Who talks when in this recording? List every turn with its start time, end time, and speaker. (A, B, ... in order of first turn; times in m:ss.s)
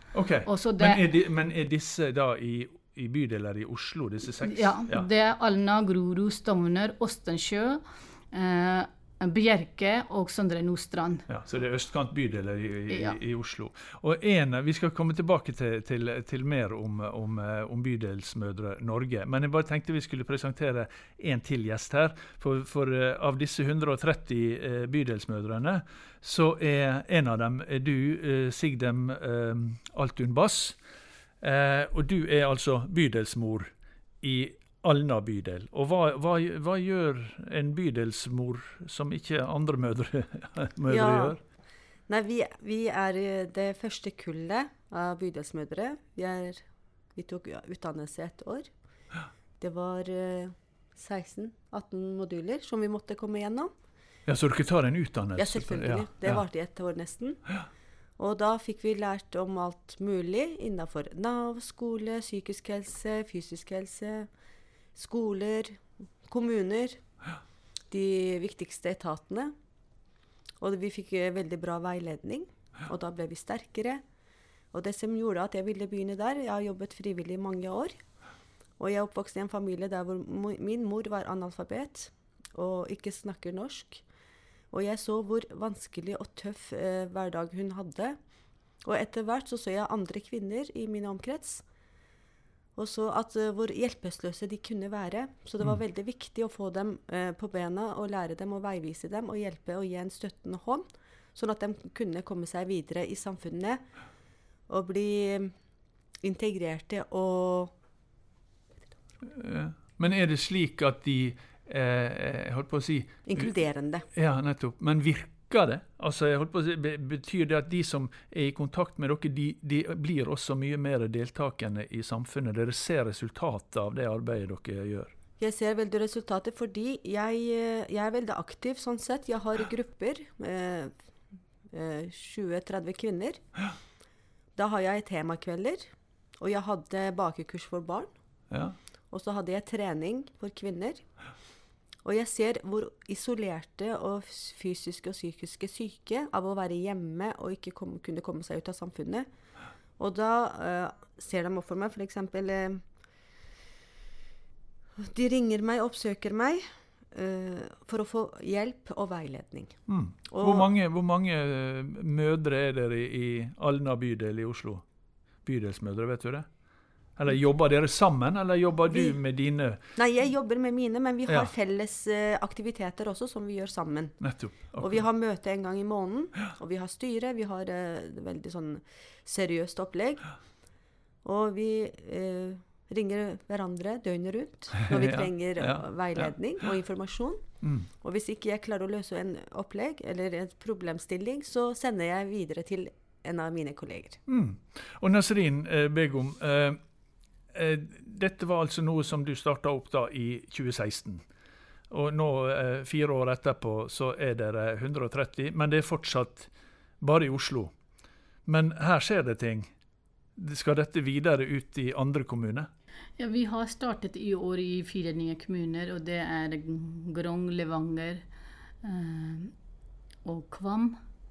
0:00.1-0:05.1 A
0:00.4-0:01.0 B
0:04.4-0:11.2 B
0:11.3-0:30.8 A
0:12.9-0:13.2 B
0:31.4-0:33.7 A
0:34.2-0:41.4 A
0:40.9-0:41.4 C
0:42.1-0:46.6 C
0:47.1-0:48.7 C
0:49.6-0:53.7 C
0:54.3-0:56.4 A
0:55.4-0:57.4 C
0:58.2-1:04.3 C
1:05.0-1:07.0 C
1:07.9-1:09.5 C
1:10.6-1:14.0 C
1:14.7-1:18.0 C
1:18.8-1:24.0 C
1:24.7-1:28.2 C
1:28.8-1:31.6 C
1:32.8-1:40.8 C
1:41.4-1:43.8 C
1:44.7-1:45.5 C
1:46.2-1:47.7 C
1:49.3-1:53.5 A
1:53.3-1:54.1 C
1:54.1-2:05.1 A
2:05.4-2:10.9 C
2:11.7-2:13.4 C
2:14.6-2:15.9 C
2:16.4-2:18.1 C
2:18.5-2:18.8 A
2:19.1-2:21.0 C
2:22.0-2:29.3 C
2:30.0-2:32.8 C
2:35.0-2:39.8 C
2:39.9-2:44.8 A
2:40.3-2:40.7 C
2:45.4-2:46.5 A
2:47.2-2:49.8 A
2:48.9-2:49.2 C
2:50.0-2:54.2 C
2:51.3-2:51.5 A
2:54.2-2:55.0 A
2:54.8-3:00.2 C
3:01.2-3:07.4 C
3:04.8-3:06.5 A
3:07.6-3:07.9 A
3:08.0-3:14.2 C
3:14.3-3:16.8 A
3:17.5-3:21.2 A
3:21.9-3:26.5 A
3:27.0-3:27.7 A
3:28.5-3:29.7 A
3:30.4-3:32.7 A
3:33.2-3:38.2 B
3:38.8-3:39.5 B
3:40.2-3:41.0 B